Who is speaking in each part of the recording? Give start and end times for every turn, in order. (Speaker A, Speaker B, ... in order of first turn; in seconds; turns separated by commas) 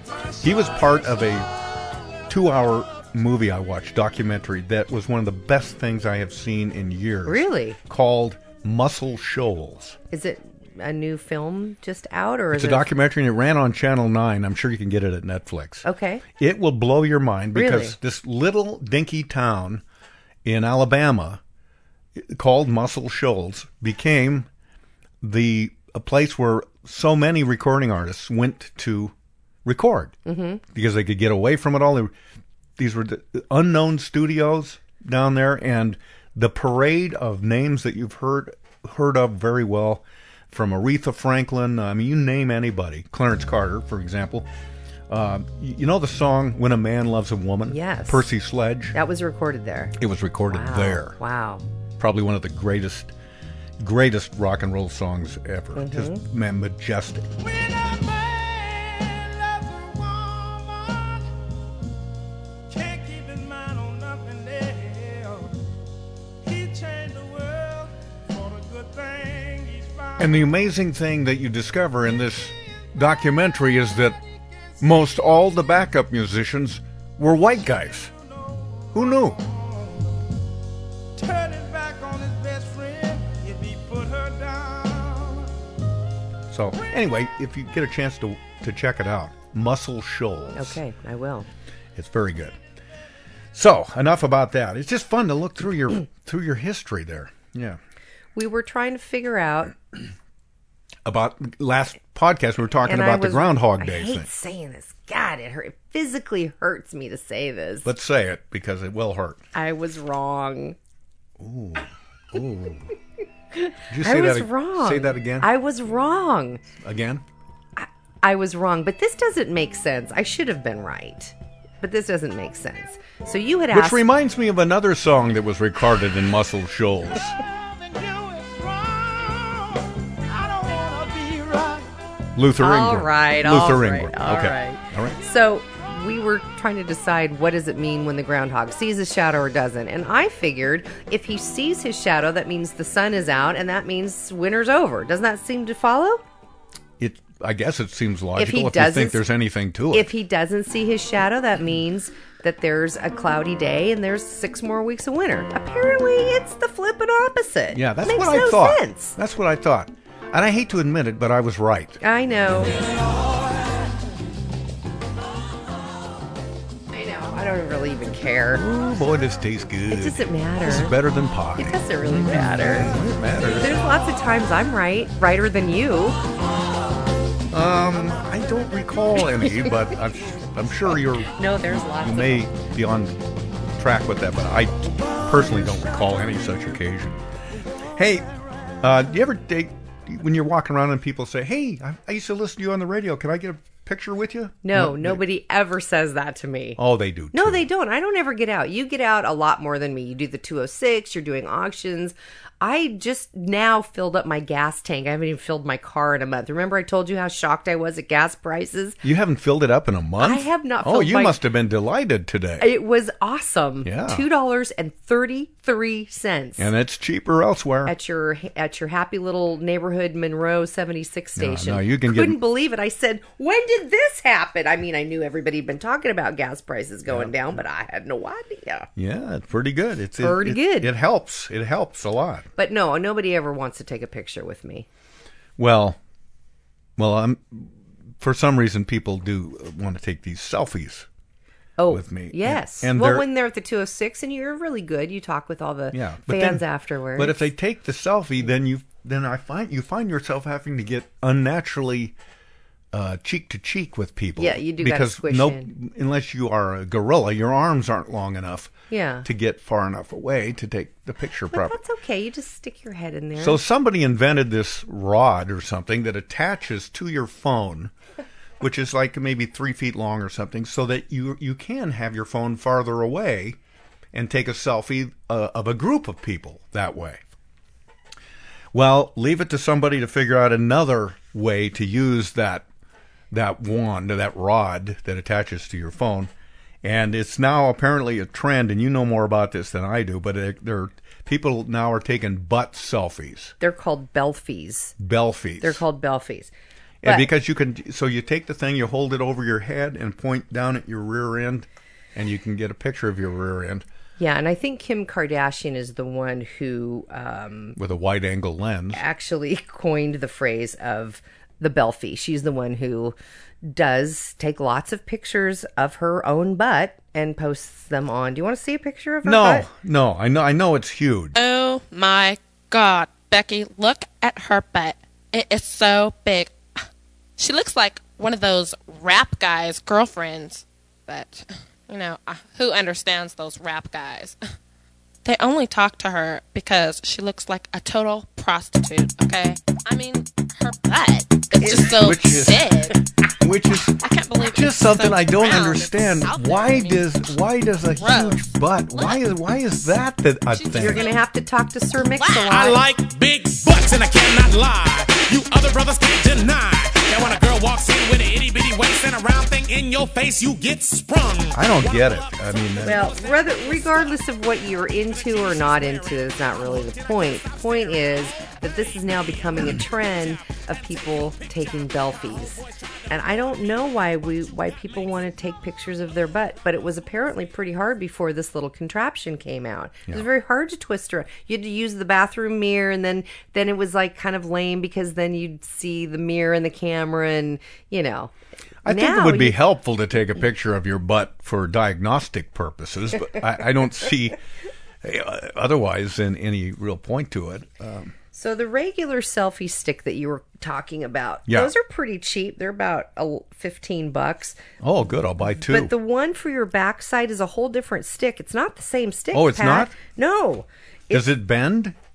Speaker A: 0.4-1.5, Speaker A: 2.3-10.0, Speaker B: 7.3-7.8, Speaker B: 10.1-12.9, Speaker A: 12.5-15.9, Speaker B: 15.8-16.2, Speaker A: 16.4-19.8, Speaker B: 17.6-18.0, Speaker A: 20.4-21.4, Speaker A: 22.2-24.5, Speaker A: 25.2-29.1, Speaker A: 29.6-30.1, Speaker B: 30.3-30.6, Speaker A: 30.7-32.1, Speaker A: 32.8-44.5, Speaker A: 45.1-49.0, Speaker B: 47.7-48.2, Speaker B: 48.9-49.9, Speaker A: 50.0-51.2, Speaker B: 50.5-51.6, Speaker A: 52.0-53.1, Speaker A: 53.8-57.3, Speaker B: 55.8-56.2, Speaker C: 57.4-61.3, Speaker C: 62.7-65.5, Speaker C: 66.4-70.5, Speaker A: 70.2-74.2, Speaker A: 74.8-78.1, Speaker C: 77.9-80.2, Speaker A: 78.9-79.4, Speaker C: 81.2-85.5, Speaker A: 86.5-90.8, Speaker B: 90.5-91.5, Speaker A: 92.0-92.6, Speaker A: 93.5-97.8, Speaker B: 98.3-99.8, Speaker A: 101.0-104.3, Speaker B: 102.8-107.9, Speaker A: 107.8-109.4, Speaker B: 109.5-110.8, Speaker A: 111.4-112.9, Speaker B: 113.6-116.6, Speaker A: 113.9-115.5, Speaker A: 116.8-117.2, Speaker B: 117.8-124.0, Speaker A: 123.7-127.4, Speaker C: 127.4-131.9, Speaker A: 132.4-135.2, Speaker B: 132.6-146.2, Speaker A: 147.0-150.1, Speaker B: 148.4-149.2, Speaker B: 149.9-159.2, Speaker A: 157.7-162.0, Speaker B: 162.0-162.8, Speaker B: 166.9-168.7, Speaker A: 168.6-173.8, Speaker B: 169.9-171.0, Speaker B: 171.6-172.9, Speaker B: 173.6-176.2, Speaker A: 177.5-183.2, Speaker B: 181.2-182.5, Speaker A: 183.8-187.2, Speaker A: 187.9-188.3, Speaker A: 188.8-195.2, Speaker B: 194.6-196.8, Speaker A: 196.8-197.7, Speaker B: 197.3-209.0, Speaker A: 209.0-212.7, Speaker B: 210.2-211.4, Speaker B: 212.6-216.7, Speaker A: 213.8-214.2, Speaker A: 216.6-217.9, Speaker B: 217.9-228.9, Speaker A: 221.4-222.4, Speaker A: 227.1-227.6, Speaker A: 229.0-232.5, Speaker B: 230.2-230.9, Speaker B: 232.6-234.9, Speaker A: 235.6-236.0, Speaker A: 237.0-241.1, Speaker B: 241.8-247.4, Speaker A: 241.9-243.3, Speaker A: 245.9-252.2, Speaker A: 252.9-258.7, Speaker B: 254.4-255.7, Speaker B: 258.9-259.3, Speaker A: 259.2-261.8, Speaker B: 261.5-263.6, Speaker A: 263.4-267.9, Speaker A: 268.6-273.6, Speaker A: 274.1-277.2, Speaker A: 278.7-282.7, Speaker A: 283.3-286.3, Speaker A: 286.8-293.5, Speaker B: 293.6-295.0, Speaker A: 295.0-295.8, Speaker B: 295.6-296.5, Speaker A: 297.0-303.9, Speaker B: 297.0-297.3, Speaker B: 304.2-307.8, Speaker A: 307.8-309.0, Speaker B: 308.9-319.7, Speaker A: 319.2-321.4, Speaker D: 321.4-326.6, Speaker D: 327.4-334.4, Speaker D: 335.2-343.0, Speaker B: 341.6-341.9, Speaker A: 341.7-342.8, Speaker A: 343.4-351.0, Speaker D: 344.0-347.3, Speaker D: 347.9-349.9, Speaker D: 350.5-351.2, Speaker B: 350.8-352.8, Speaker D: 352.2-352.6, Speaker E: 352.5-363.5, Speaker A: 361.5-363.1, Speaker B: 362.8-388.3, Speaker A: 388.8-394.4, Speaker B: 388.9-389.6, Speaker A: 395.0-398.1, Speaker B: 398.3-404.6, Speaker A: 401.5-401.7, Speaker A: 404.8-405.9, Speaker B: 405.7-411.3, Speaker A: 409.3-409.9, Speaker A: 411.1-412.0